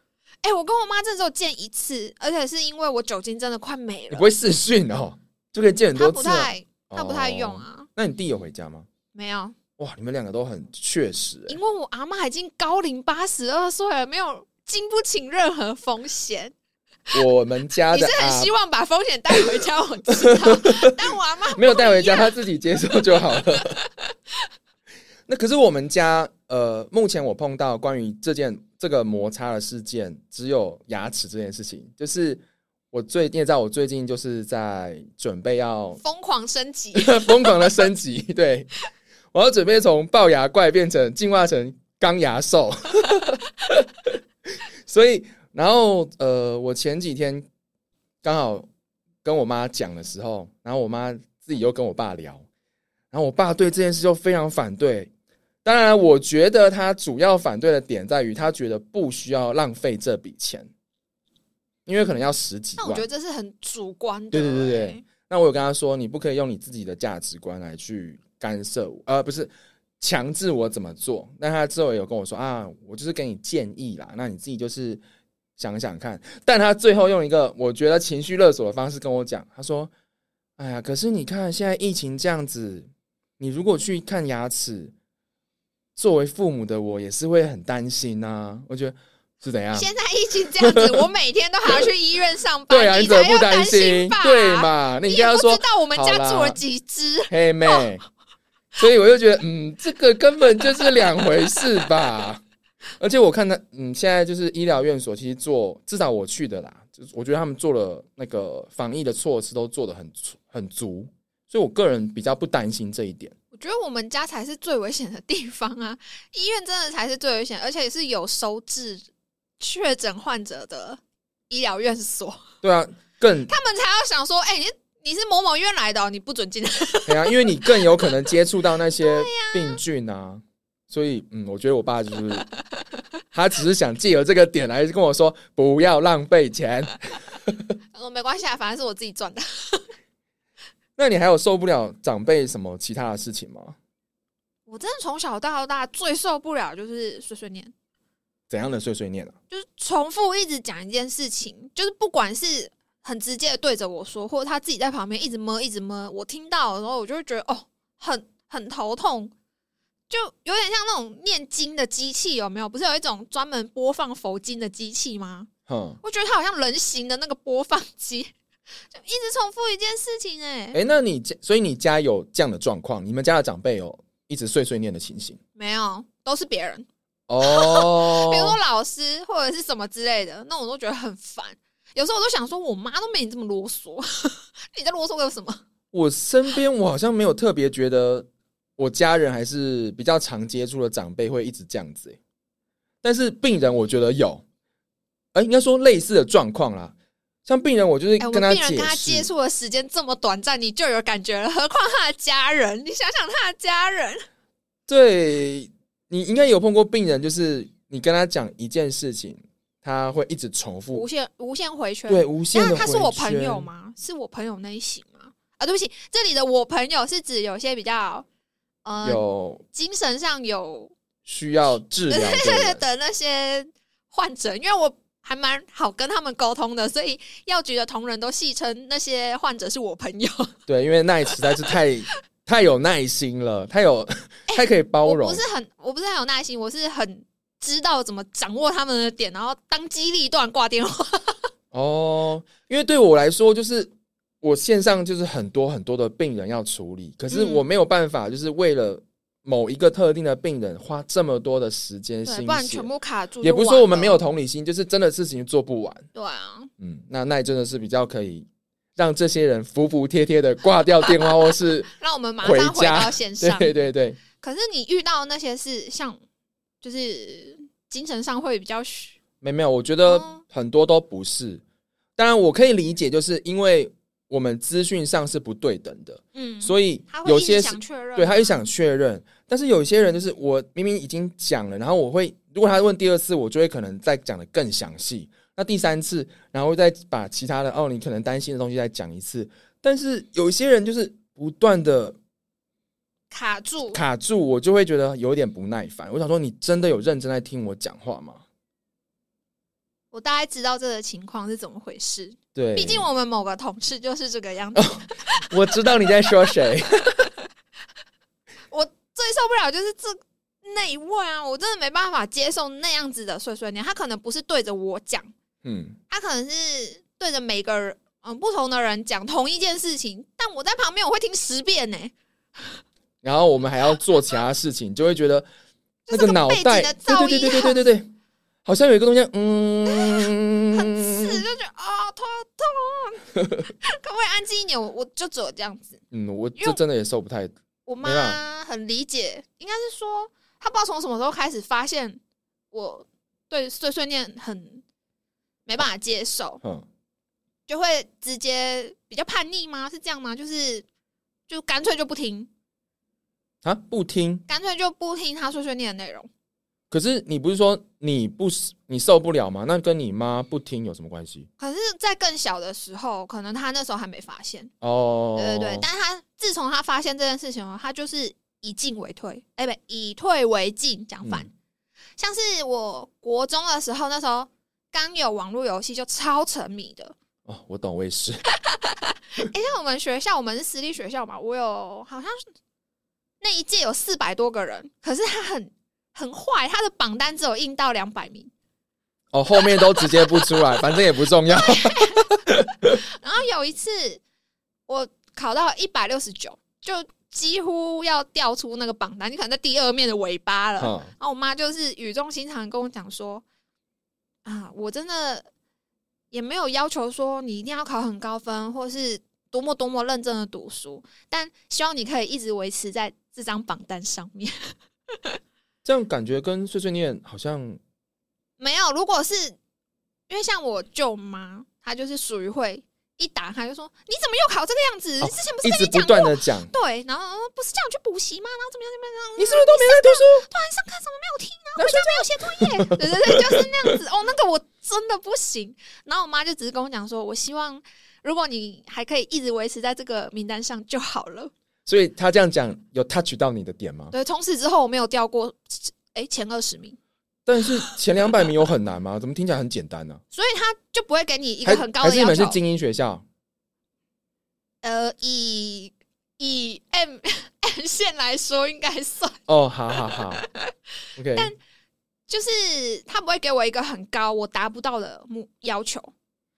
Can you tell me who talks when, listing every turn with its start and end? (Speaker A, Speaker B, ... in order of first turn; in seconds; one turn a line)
Speaker A: 0.4-4.3
Speaker B: 4.1-8.9
Speaker A: 5.9-7.9
Speaker A: 9.1-9.6
Speaker B: 9.8-11.6
Speaker A: 11.5-16.5
Speaker B: 17.1-18.5
Speaker A: 17.9-22.3
Speaker B: 20.1-20.9
Speaker B: 21.5-23.8
Speaker B: 25.3-36.0
Speaker A: 36.0-37.8
Speaker B: 37.0-38.7
Speaker B: 39.3-44.2
Speaker B: 44.8-47.5
Speaker B: 48.2-48.7
Speaker B: 49.2-52.4
Speaker B: 53.1-55.1
Speaker B: 55.6-60.7
Speaker B: 61.9-63.0
Speaker A: 62.8-65.0
Speaker B: 64.3-75.0
Speaker B: 75.6-79.9
Speaker B: 80.6-84.9
Speaker B: 86.0-89.9
Speaker A: 89.7-97.8
Speaker B: 90.6-91.1
Speaker B: 92.7-96.6
Speaker B: 97.3-98.0
Speaker B: 98.8-102.4
Speaker B: 103.0-113.3
Speaker A: 113.5-119.1
Speaker A: 119.6-122.4
Speaker B: 122.6-123.5
Speaker A: 123.5-128.3
Speaker B: 127.1-132.5
Speaker A: 129.0-129.8
Speaker B: 133.3-137.7
Speaker A: 137.9-139.8
Speaker B: 141.0-143.8
Speaker A: 144.7-147.7
Speaker B: 148.5-149.3
Speaker A: 149.5-159.3
Speaker A: 160.1-165.5
Speaker B: 165.7-166.0
Speaker A: 166.0-168.3
Speaker A: 168.9-170.8
Speaker B: 170.7-175.4
Speaker A: 175.6-176.9
Speaker B: 177.3-178.6
Speaker A: 177.4-185.6
Speaker B: 185.9-192.2
Speaker B: 193.0-194.4
Speaker B: 195.3-196.9
Speaker B: 197.4-199.3
Speaker A: 198.2-204.2
Speaker B: 204.9-211.0
Speaker A: 210.9-218.3
Speaker B: 212.1-213.7
Speaker A: 218.8-219.2
Speaker B: 219.0-219.6
Speaker A: 219.7-220.9
Speaker B: 221.2-222.8
Speaker A: 222.1-230.5
Speaker B: 230.7-235.4
Speaker A: 234.5-241.4
Speaker B: 241.7-243.9
Speaker B: 244.4-252.9
Speaker A: 247.3-247.6
Speaker A: 252.2-254.2
Speaker B: 253.4-256.1
Speaker A: 256.1-256.7
Speaker B: 256.8-261.9
Speaker A: 261.9-263.7
Speaker B: 262.4-264.2
Speaker A: 264.4-266.2
Speaker A: 266.8-269.1
Speaker B: 269.4-271.6
Speaker A: 270.1-270.4
Speaker B: 272.2-292.1
Speaker A: 276.3-278.6
Speaker A: 293.3-294.0
Speaker B: 293.9-298.4
Speaker A: 300.1-305.6
Speaker B: 302.5-303.1
Speaker B: 304.7-307.3
Speaker A: 308.7-315.3
Speaker B: 315.6-316.0
Speaker A: 316.1-322.8
Speaker B: 323.2-325.5
Speaker A: 326.1-327.9
Speaker B: 326.1-328.1
Speaker B: 328.6-331.4
Speaker A: 329.8-336.0
Speaker B: 333.4-333.6
Speaker B: 336.1-338.4
Speaker A: 337.9-342.2
Speaker A: 342.7-344.8
Speaker A: 345.6-346.6
Speaker A: 347.7-350.9
Speaker A: 351.5-352.5
Speaker B: 353.6-354.4
Speaker A: 354.5-356.3
Speaker B: 356.9-361.5
Speaker A: 361.6-364.7
Speaker B: 364.8-365.9
Speaker A: 365.4-371.5
Speaker B: 371.2-371.5
Speaker A: 372.2-377.1
Speaker B: 377.4-378.4
Speaker A: 378.6-382.4
Speaker A: 383.4-388.5
Speaker B: 389.3-393.0
Speaker A: 389.6-394.2
Speaker A: 394.9-403.4
Speaker B: 400.8-401.1
Speaker A: 404.4-405.4
Speaker A: 406.3-415.4
Speaker B: 415.8-417.8
Speaker A: 418.6-419.6
Speaker A: 420.3-441.5
Speaker B: 425.2-426.7
Speaker B: 429.4-430.4
Speaker B: 431.8-433.9
Speaker B: 441.9-444.1
Speaker A: 444.1-447.0
Speaker B: 447.4-450.2
Speaker A: 447.6-447.9
Speaker A: 450.3-452.6
Speaker B: 451.6-453.2
Speaker A: 454.8-459.4
Speaker B: 459.5-460.4
Speaker A: 459.9-460.7
Speaker B: 461.2-461.5
Speaker A: 462.3-466.1